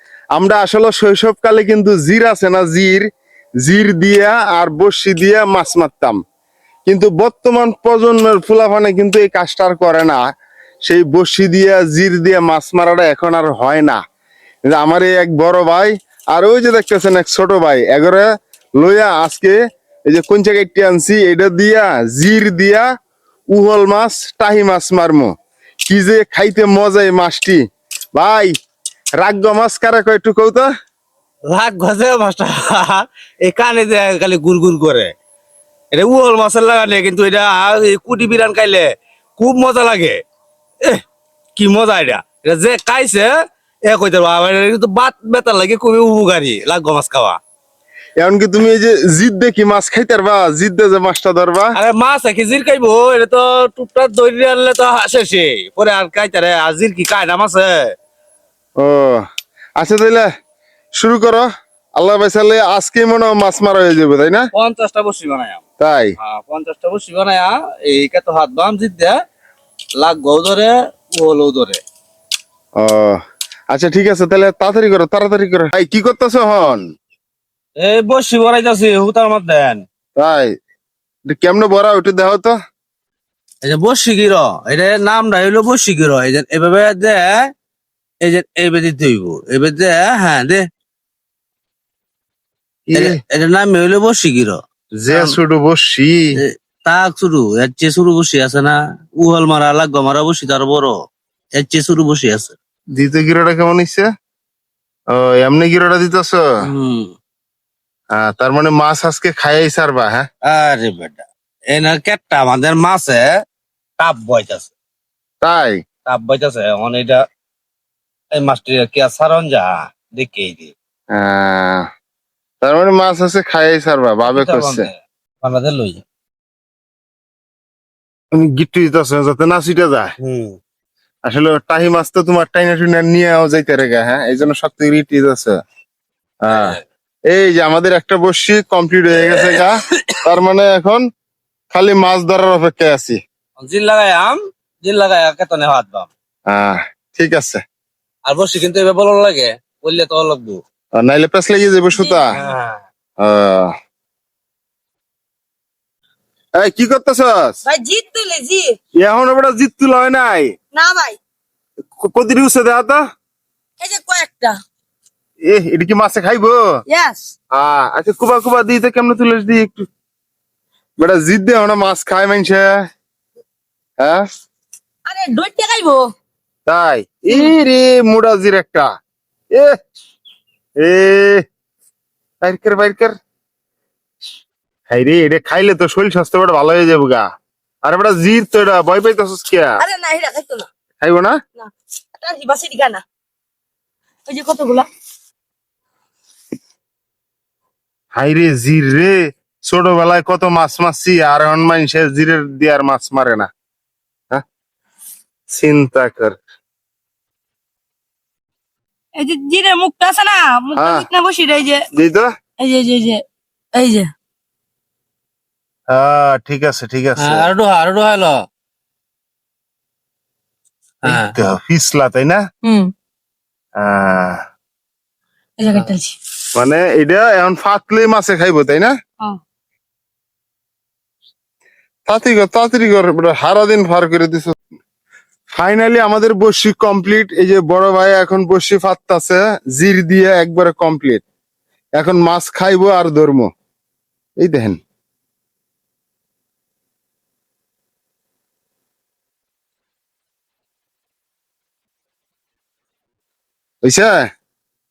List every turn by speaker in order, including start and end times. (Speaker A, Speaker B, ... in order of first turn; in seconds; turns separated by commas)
Speaker A: 0.4-3.1, Speaker A: 3.6-6.2, Speaker A: 6.9-10.2, Speaker A: 10.9-14.0, Speaker A: 14.7-18.3, Speaker A: 18.8-19.6, Speaker A: 20.1-22.9, Speaker A: 23.5-25.3, Speaker A: 25.9-27.6, Speaker A: 28.1-28.5, Speaker A: 29.2-30.7, Speaker B: 31.5-35.1, Speaker B: 35.9-40.2, Speaker B: 41.6-43.3, Speaker B: 43.9-47.4, Speaker A: 48.2-51.7, Speaker B: 51.8-57.9, Speaker A: 58.8-59.2, Speaker A: 59.8-60.3, Speaker A: 61.0-64.5, Speaker B: 64.5-65.6, Speaker A: 65.8-66.1, Speaker B: 66.2-69.1, Speaker B: 70.0-71.8, Speaker A: 72.8-73.2, Speaker A: 73.7-76.8, Speaker B: 77.8-79.8, Speaker A: 80.2-80.5, Speaker A: 81.3-82.5, Speaker B: 83.6-87.3, Speaker B: 88.2-90.6, Speaker A: 92.9-93.2, Speaker B: 92.9-94.6, Speaker A: 95.0-96.2, Speaker B: 95.1-95.4, Speaker B: 96.4-100.9, Speaker B: 101.6-102.5, Speaker A: 103.0-104.1, Speaker A: 105.2-106.4, Speaker B: 106.7-107.1, Speaker A: 108.2-110.2, Speaker B: 110.5-113.2, Speaker B: 114.0-114.7, Speaker A: 115.4-115.8, Speaker B: 116.1-117.2, Speaker B: 118.4-120.7, Speaker A: 121.1-121.9, Speaker A: 122.6-124.9, Speaker B: 124.2-126.0, Speaker A: 128.3-130.1, Speaker B: 130.2-130.6, Speaker A: 131.3-135.6, Speaker A: 136.4-136.8, Speaker B: 136.5-136.8, Speaker A: 137.3-141.0, Speaker B: 139.2-140.2, Speaker A: 141.7-143.2, Speaker B: 143.6-146.1, Speaker A: 146.5-147.6, Speaker B: 148.3-150.6, Speaker A: 151.0-152.3, Speaker C: 151.9-152.4, Speaker B: 152.3-152.8, Speaker A: 153.2-153.7, Speaker A: 156.6-157.5, Speaker C: 157.7-158.8, Speaker A: 159.0-160.5, Speaker C: 160.7-161.2, Speaker A: 162.0-163.0, Speaker C: 163.8-164.6, Speaker A: 165.5-166.6, Speaker C: 166.9-167.3, Speaker A: 167.6-169.9, Speaker A: 171.0-172.7, Speaker C: 175.1-176.1, Speaker A: 176.7-178.9, Speaker A: 180.8-181.4, Speaker A: 182.4-183.2, Speaker A: 184.9-187.2, Speaker A: 187.9-189.7, Speaker C: 189.8-190.7, Speaker A: 191.0-191.4, Speaker C: 191.6-193.0, Speaker C: 194.3-194.9, Speaker A: 198.2-199.1, Speaker A: 199.7-203.5, Speaker A: 205.5-206.4, Speaker C: 209.2-211.9, Speaker A: 210.8-211.1, Speaker A: 211.9-212.3, Speaker C: 212.6-213.2, Speaker C: 213.8-214.1, Speaker A: 215.9-217.5, Speaker B: 217.2-218.3, Speaker B: 221.1-221.3, Speaker A: 221.1-222.4, Speaker C: 222.6-222.9, Speaker A: 223.8-224.4, Speaker C: 225.6-226.2, Speaker A: 226.6-228.9, Speaker A: 232.1-234.6, Speaker A: 235.6-241.2, Speaker A: 242.0-243.5, Speaker A: 244.4-244.8, Speaker A: 253.8-254.2